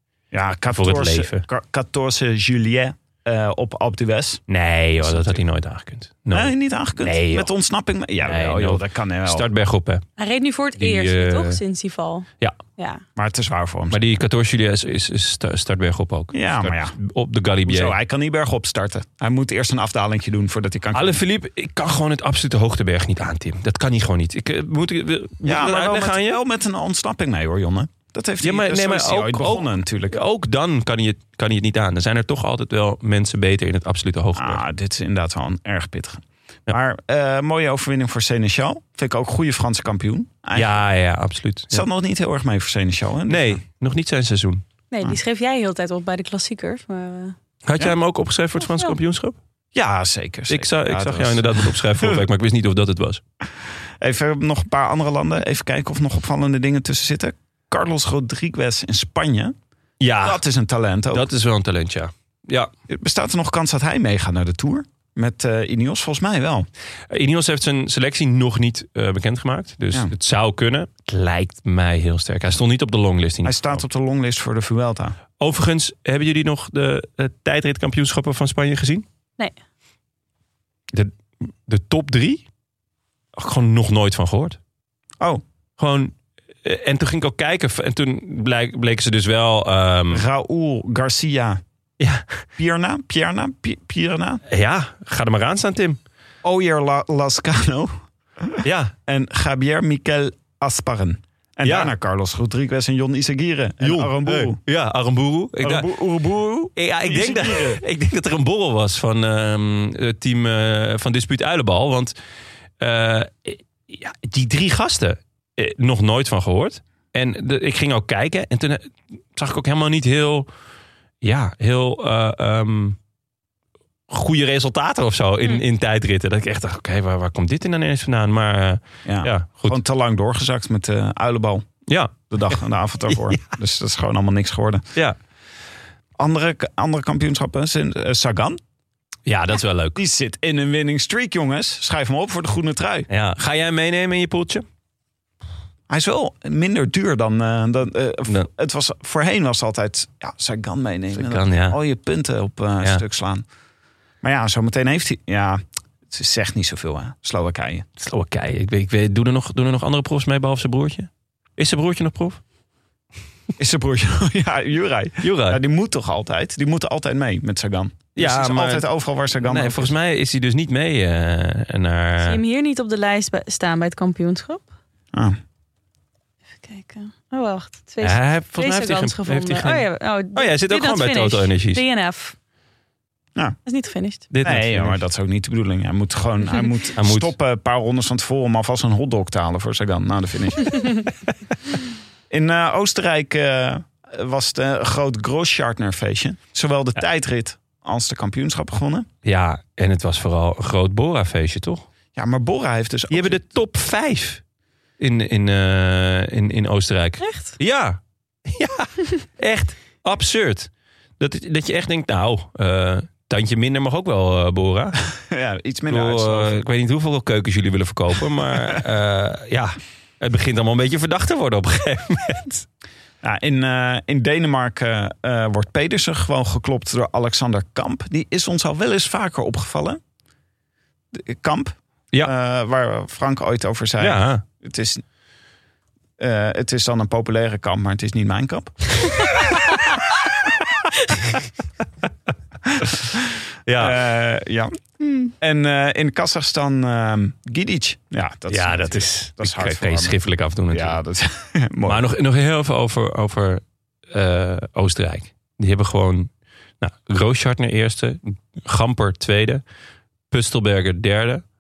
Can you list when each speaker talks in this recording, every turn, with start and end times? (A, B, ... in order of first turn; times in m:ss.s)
0:00.3-0:04.4 A
0:00.7-0:01.4 B
0:04.5-0:07.5 B
0:05.0-0:05.4 A
0:06.3-0:09.5 A
0:08.2-0:10.0 B
0:10.2-0:13.0 C
0:10.8-0:11.6 B
0:13.2-0:14.0 A
0:13.9-0:17.9 B
0:16.3-0:17.0 A
0:17.6-0:21.2 A
0:20.9-0:26.4 B
0:25.4-0:30.2 A
0:28.4-0:34.6 B
0:34.4-0:40.7 A
0:40.5-0:41.8 B
0:41.7-0:43.6 A
0:43.3-0:44.6 B
0:44.9-0:47.3 C
0:47.6-0:49.4 B
0:49.7-0:52.2 A
0:50.5-0:53.2 B
0:54.0-0:59.5 A
1:00.0-1:00.4 B
1:00.2-1:01.3 A
1:01.1-1:02.7 B
1:02.9-1:06.7 A
1:07.1-1:13.8 B
1:13.4-1:15.2 A
1:15.4-1:19.0 B
1:20.9-1:22.4 B
1:23.4-1:24.6 B
1:25.8-1:30.2 B
1:30.1-1:31.6 A
1:32.0-1:32.4 B
1:32.6-1:34.4 A
1:34.5-1:36.0 B
1:36.4-1:44.6 A
1:38.6-1:38.9 B
1:41.6-1:41.9 B
1:43.8-1:45.9 B
1:45.6-1:47.8 A
1:46.8-1:52.1 B
1:52.8-2:00.5 B
2:01.2-2:03.0 B
2:04.1-2:09.8 B
2:09.0-2:11.7 A
2:11.9-2:13.4 B
2:12.3-2:14.8 A
2:16.2-2:18.6 A
2:19.2-2:20.0 B
2:20.0-2:23.1 A
2:23.1-2:24.6 B
2:25.9-2:33.4 A
2:31.1-2:31.8 B
2:34.2-2:37.8 A
2:38.0-2:42.4 B
2:43.6-2:49.9 A
2:45.2-2:45.6 B
2:48.1-2:48.8 B
2:49.4-2:52.4 B
2:52.2-2:54.6 C
2:56.6-3:02.3 C
2:58.0-3:01.8 B
3:03.6-3:04.2 C
3:04.3-3:05.0 B
3:04.4-3:10.8 A
3:07.0-3:07.3 B
3:12.3-3:19.1 A
3:19.2-3:21.9 B
3:22.1-3:23.4 A
3:23.1-3:24.4 B
3:25.0-3:35.0 B
3:27.2-3:27.6 C
3:35.2-3:36.6 A
3:35.9-3:42.6 B
3:43.2-3:50.0 A
3:51.1-3:55.0 A
3:54.0-3:54.4 B
3:56.2-3:58.9 A
4:02.6-4:04.7 A
4:03.6-4:04.0 B
4:05.4-4:10.1 A
4:08.5-4:11.0 B
4:10.7-4:12.1 A
4:11.8-4:16.3 B
4:16.8-4:19.6 B
4:20.3-4:21.4 B